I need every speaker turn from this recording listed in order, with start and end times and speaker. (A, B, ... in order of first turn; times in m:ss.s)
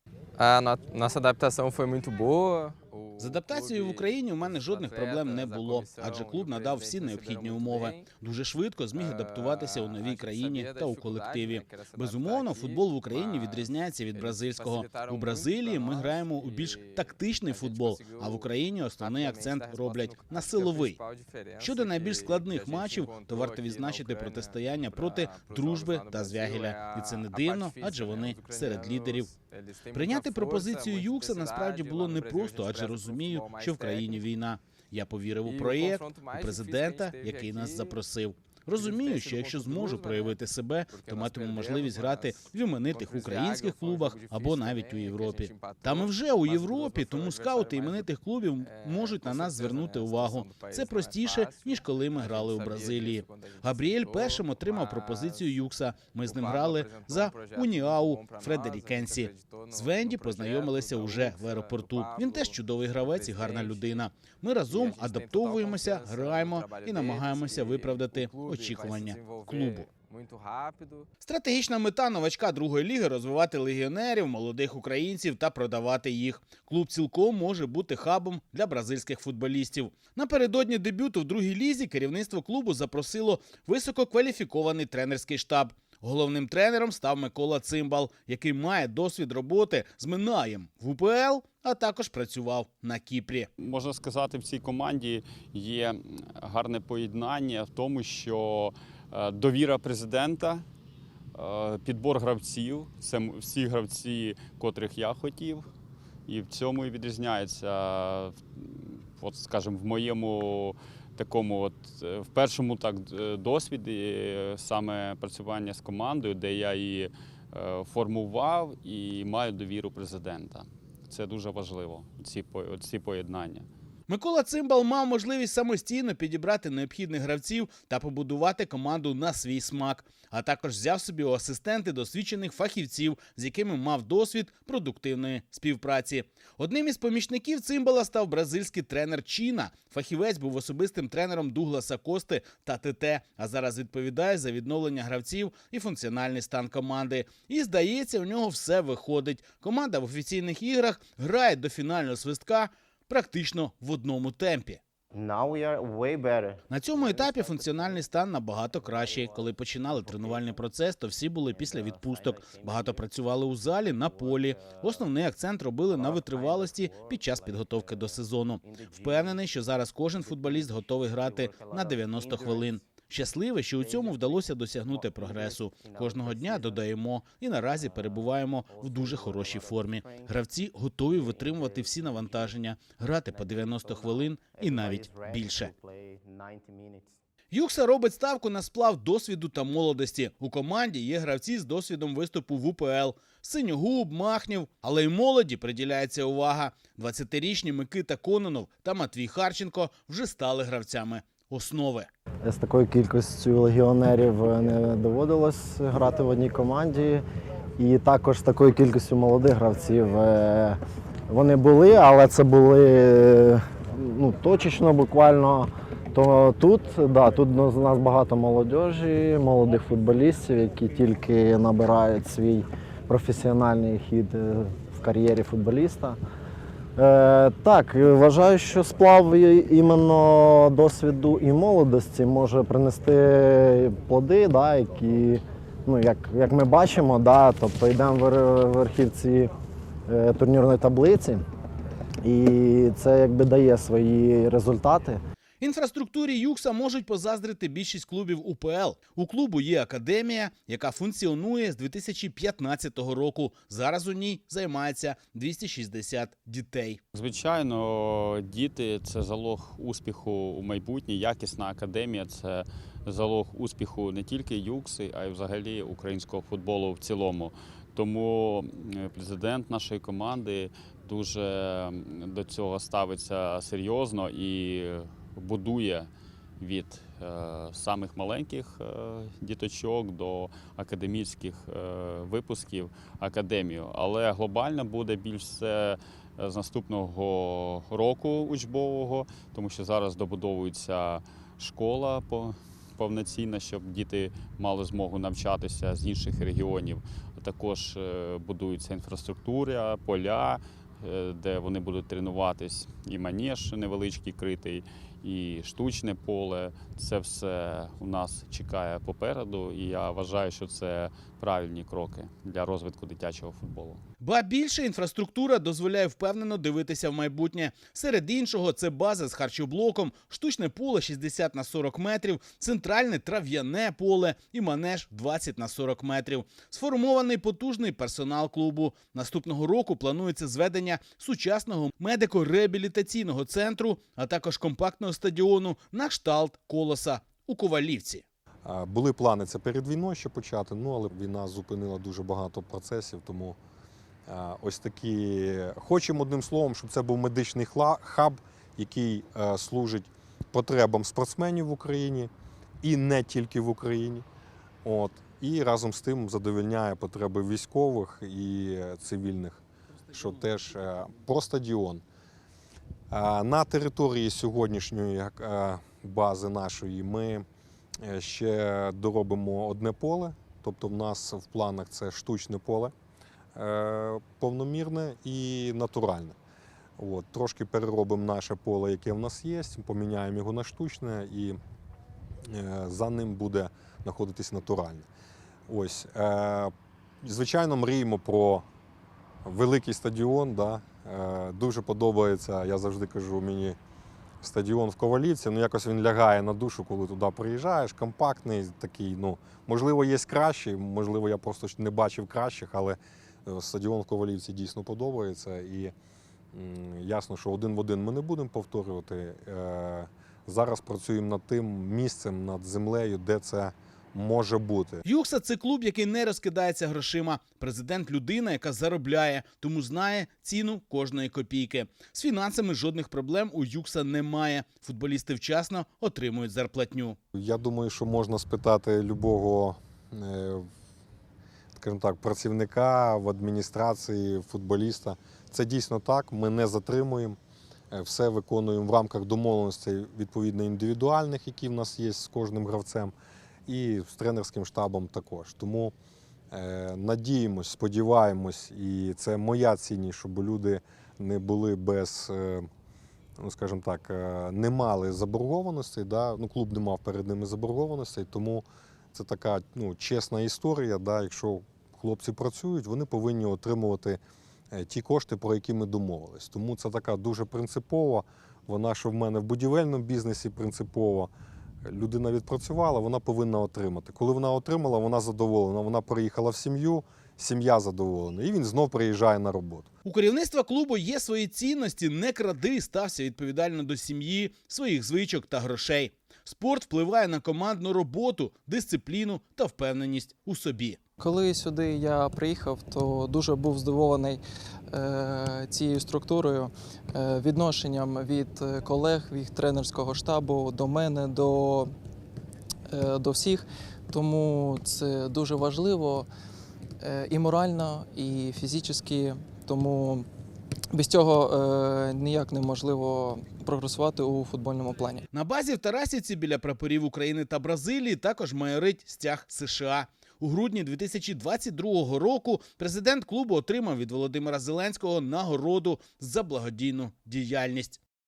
0:00.4-0:08.1 A
0:03.2-0:21.0 B
0:08.9-0:34.2 A
0:21.6-0:29.4 B
0:29.9-1:09.9 B
0:35.4-0:38.0 A
0:38.7-0:55.6 A
0:56.2-1:04.1 A
1:04.7-1:11.1 A
1:11.2-1:33.5 B
1:33.6-1:40.6 C
1:41.3-1:45.7 C
1:46.3-2:03.7 C
2:04.1-2:34.8 B
2:35.1-2:40.7 D
2:36.7-3:05.7 B
2:41.4-2:53.1 D
2:53.7-2:57.1 D
2:57.6-3:02.6 D
3:03.2-3:07.2 D
3:07.5-3:22.1 B
3:22.4-3:27.2 E
3:27.8-3:46.2 E
3:47.0-3:59.5 E
4:00.1-4:01.4 E
4:02.2-4:05.2 E
4:05.6-4:17.0 B
4:17.1-5:14.0 C
5:14.2-5:38.2 B
5:38.6-5:43.6 F
5:44.3-5:52.3 F
5:52.8-5:54.2 F
5:54.8-6:02.0 F
6:03.1-6:07.4 F
6:08.0-6:12.9 F
6:13.6-6:16.4 F
6:17.0-6:21.6 F
6:22.4-6:25.1 F
6:25.7-6:28.6 F
6:29.4-6:33.8 F
6:34.4-6:45.9 F
6:46.5-6:55.0 F
6:55.0-7:07.2 B
7:07.3-7:10.7 F
7:11.8-7:17.4 F
7:17.9-7:23.1 F
7:23.7-7:25.9 F
7:26.5-7:32.7 F
7:33.4-7:44.2 F
7:44.7-7:51.3 F
7:51.8-7:59.9 F
8:00.0-8:11.0 B
8:11.2-8:14.4 G
8:14.9-8:21.9 G
8:22.9-8:26.3 G
8:27.0-8:30.3 G
8:30.9-8:35.2 G
8:35.3-8:48.0 B